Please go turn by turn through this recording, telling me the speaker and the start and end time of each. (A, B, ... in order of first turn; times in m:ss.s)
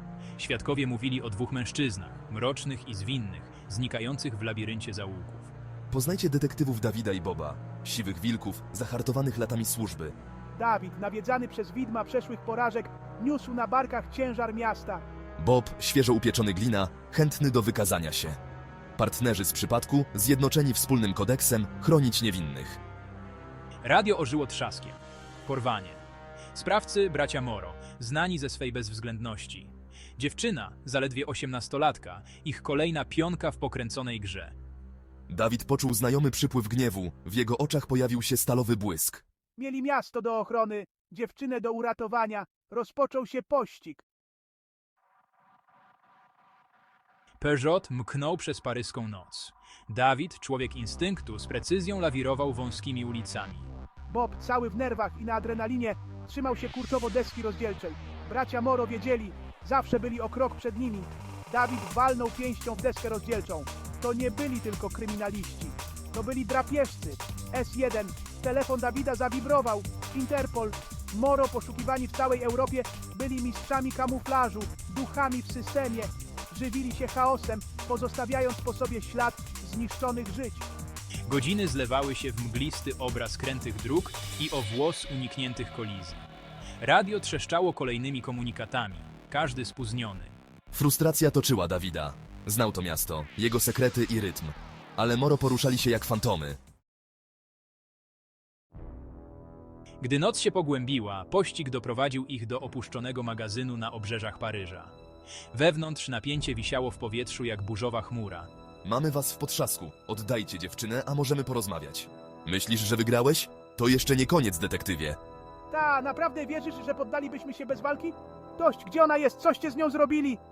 0:00.4-0:05.5 A
0:05.9-0:10.1 B
0:10.6-0:15.0 C
0:15.4-0:18.4 B
0:19.0-0:22.8 B
0:23.8-0:26.0 A
0:26.5-0:34.5 A
0:35.3-0:39.2 B
0:39.6-0:44.0 C
0:47.4-0:53.7 A
0:54.1-1:20.6 C
1:21.3-1:26.3 A
1:26.8-1:30.3 A
1:30.7-1:36.6 B
1:40.0-1:44.9 A
1:45.5-1:48.5 A
1:48.8-1:55.2 B
1:55.7-2:00.4 C